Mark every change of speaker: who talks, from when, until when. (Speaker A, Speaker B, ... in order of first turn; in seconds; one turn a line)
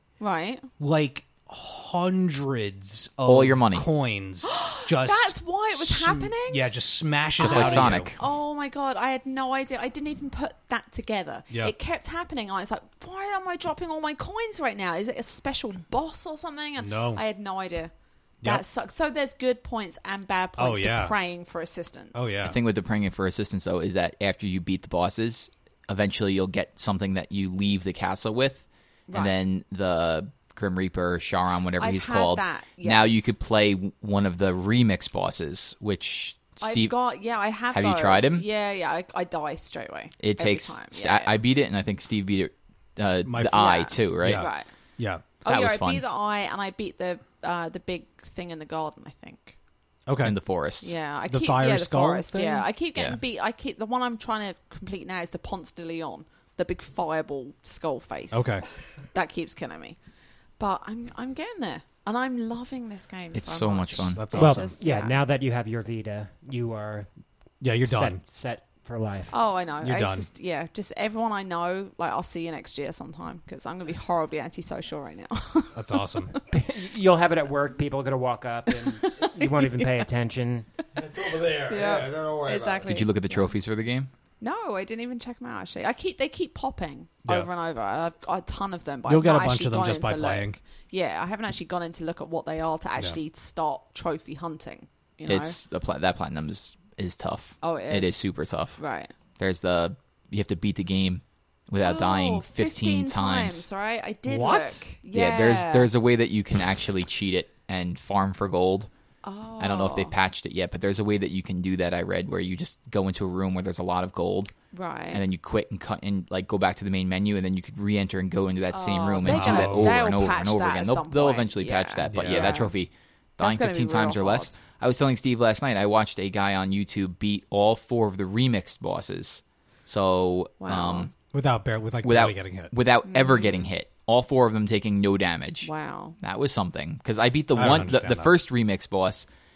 Speaker A: 0.2-0.7
Speaker B: 0.8-8.1
Speaker C: 3.2-3.9
Speaker A: 4.4-6.6
Speaker C: 7.4-8.2
Speaker A: 7.4-17.9
Speaker B: 16.8-17.2
Speaker A: 18.4-22.5
Speaker B: 20.6-21.1
Speaker B: 22.1-22.6
Speaker C: 22.4-37.0
Speaker A: 29.1-29.3
Speaker A: 31.8-33.3
Speaker A: 36.6-41.4
Speaker C: 37.7-38.5
Speaker C: 40.2-44.5
Speaker B: 43.2-44.5
Speaker A: 43.5-44.7
Speaker B: 45.0-45.3
Speaker A: 45.4-49.5
Speaker C: 45.4-46.0
Speaker B: 50.1-50.4
Speaker C: 50.2-50.9
Speaker A: 50.8-58.5
Speaker B: 51.3-52.7
Speaker B: 58.3-58.6
Speaker A: 59.1-60.0
Speaker A: 60.6-65.2
Speaker C: 63.3-64.6
Speaker B: 64.2-64.7
Speaker D: 64.4-67.1
Speaker B: 67.6-68.2
Speaker D: 67.8-69.3
Speaker A: 69.3-76.4
Speaker B: 69.8-70.3
Speaker B: 75.7-76.3
Speaker D: 76.5-80.7
Speaker A: 78.7-79.9
Speaker E: 80.9-83.0
Speaker A: 81.5-83.5
Speaker C: 82.8-84.1
Speaker A: 84.4-95.6
Speaker B: 89.1-90.6
Speaker C: 95.2-98.8
Speaker A: 97.6-98.2
Speaker A: 98.8-99.1
Speaker C: 99.4-103.7
Speaker A: 101.8-105.9
Speaker B: 104.3-104.8
Speaker C: 105.1-108.9
Speaker A: 109.2-110.1
Speaker C: 109.6-114.5
Speaker A: 114.7-115.2
Speaker C: 115.1-131.1
Speaker A: 118.7-122.7
Speaker B: 119.2-120.0
Speaker B: 122.1-122.6
Speaker A: 123.4-124.6
Speaker A: 130.6-131.1
Speaker B: 131.3-132.7
Speaker C: 132.0-139.3
Speaker A: 133.0-133.7
Speaker A: 135.6-136.2
Speaker B: 137.5-138.3